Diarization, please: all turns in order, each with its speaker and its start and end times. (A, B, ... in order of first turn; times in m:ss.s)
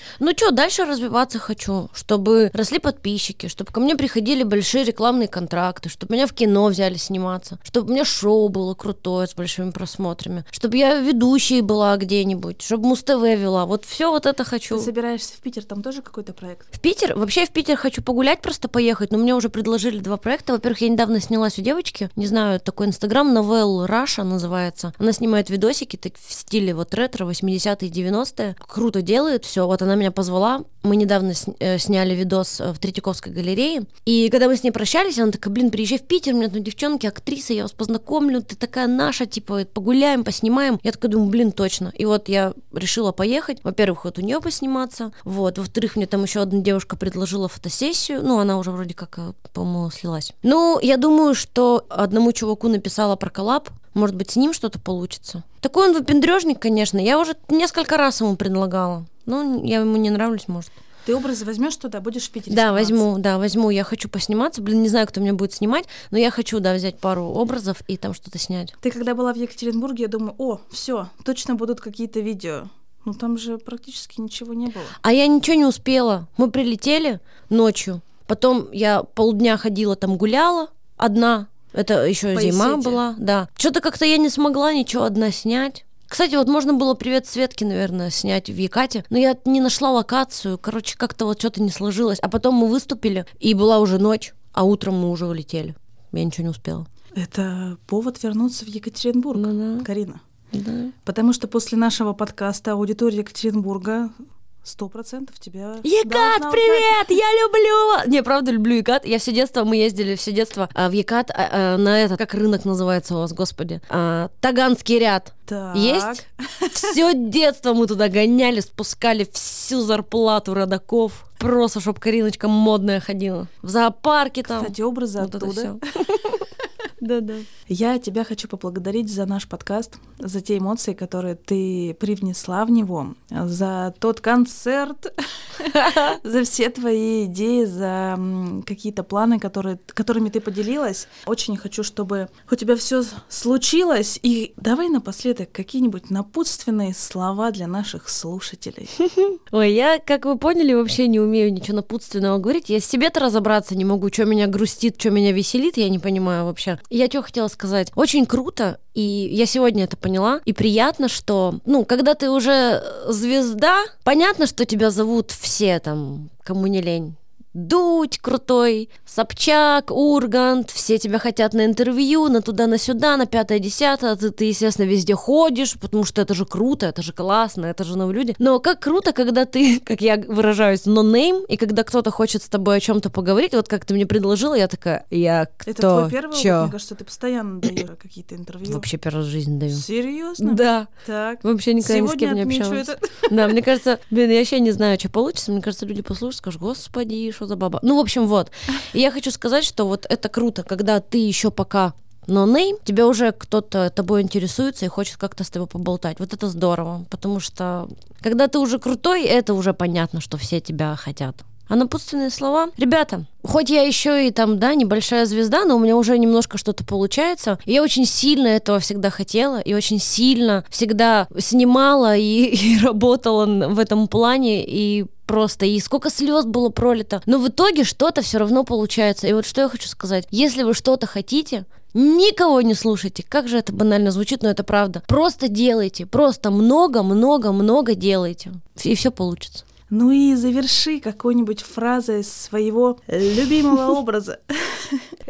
0:00.2-0:14.9 A
0:14.7-0:16.7 B
0:16.8-1:00.7 A
1:01.0-1:03.0 B
1:02.5-1:08.7 A
1:08.8-1:15.0 B
1:15.0-1:36.9 A
1:22.3-1:23.0 B
1:37.1-1:40.2 B
1:39.3-1:39.9 A
1:40.5-1:40.9 A
1:41.0-1:47.0 B
1:45.8-1:56.2 A
1:55.5-1:57.0 B
1:56.7-2:06.4 A
2:04.4-2:05.8 B
2:07.0-2:07.5 A
2:07.7-2:28.9 B
2:15.7-2:16.1 A
2:29.0-3:06.7 A
3:05.6-3:08.9 B
3:08.6-3:09.8 A
3:09.7-3:13.6 B
3:10.4-3:10.9 A
3:11.4-3:59.6 A
3:59.9-4:05.1 B